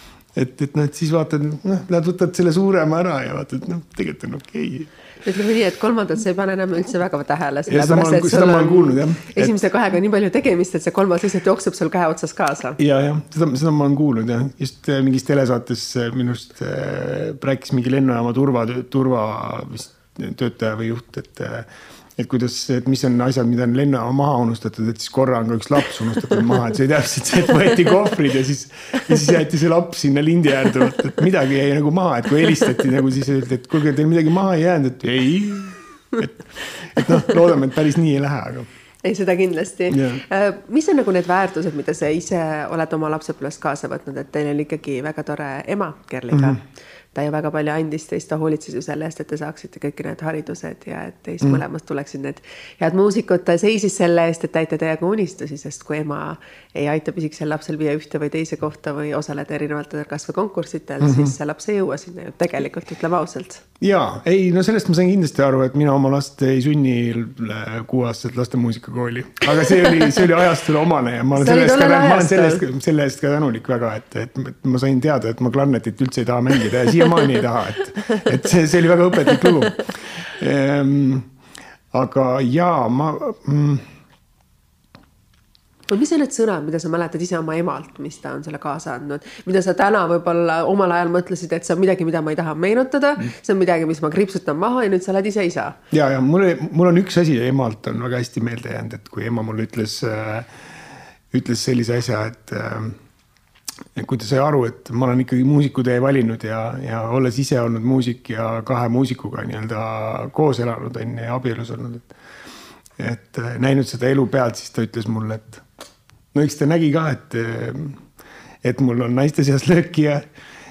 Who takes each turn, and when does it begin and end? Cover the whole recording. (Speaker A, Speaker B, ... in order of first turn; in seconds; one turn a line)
Speaker A: 0.3-4.9
Speaker B: 5.2-12.8
Speaker A: 7.7-9.5
Speaker A: 12.8-38.7
Speaker B: 39.0-46.6
Speaker A: 39.9-40.2
Speaker A: 46.3-46.6
Speaker B: 47.1-63.6
Speaker A: 61.0-61.3
Speaker A: 63.8-81.3
Speaker B: 71.3-72.6
Speaker A: 81.9-83.9
Speaker B: 85.9-95.8
Speaker A: 95.9-100.5
Speaker A: 101.3-103.0
Speaker A: 103.9-112.1
Speaker A: 113.0-115.6
Speaker A: 116.3-118.0
Speaker A: 118.6-120.2